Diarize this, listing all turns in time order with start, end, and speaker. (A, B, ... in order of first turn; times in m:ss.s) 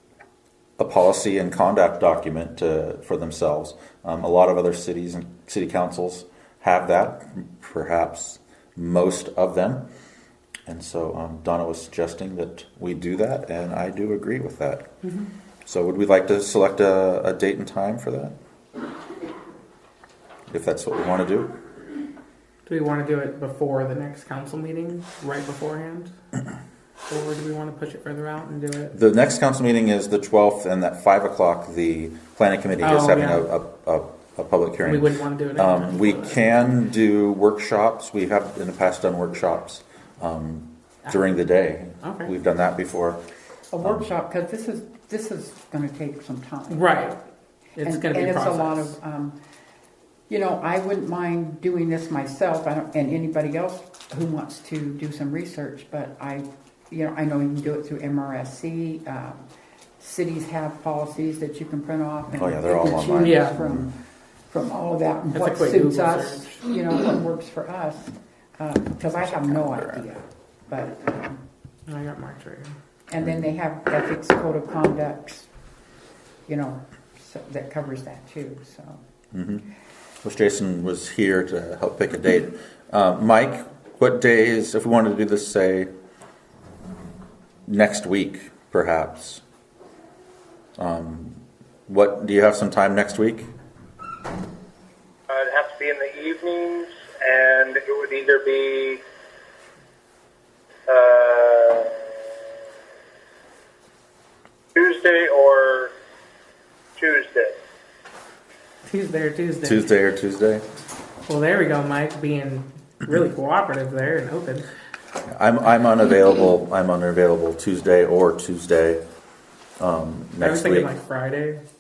0:00.8-0:09.9 A
0:10.7-0:14.9 A
0:15.0-0:15.3 B
0:15.7-0:18.4 A
0:20.5-0:21.5 A
0:22.7-0:26.1 B
0:27.1-0:29.0 B
0:28.9-0:35.0 A
0:32.8-0:33.5 B
0:34.8-0:36.4 B
0:35.6-0:43.2 A
0:42.0-0:42.3 B
0:43.7-0:47.0 C
0:46.7-0:47.2 B
0:47.8-0:48.9 B
0:47.8-0:49.4 C
0:50.3-0:59.5 C
1:00.0-1:11.4 C
1:02.3-1:03.8 A
1:03.2-1:03.6 B
1:05.3-1:06.5 B
1:09.2-1:10.0 A
1:11.9-1:12.7 B
1:13.1-1:15.5 C
1:16.5-1:19.0 C
1:19.3-1:19.6 A
1:20.2-1:25.9 A
1:27.7-1:29.4 A
1:30.8-1:33.5 A
1:35.3-1:39.0 D
1:40.9-1:41.9 D
1:44.8-1:45.9 D
1:47.0-1:47.6 D
1:48.9-1:49.9 B
1:49.6-1:50.6 A
1:51.3-1:54.7 B
1:55.3-1:59.0 A
1:59.8-2:00.9 A
2:00.4-2:01.6 B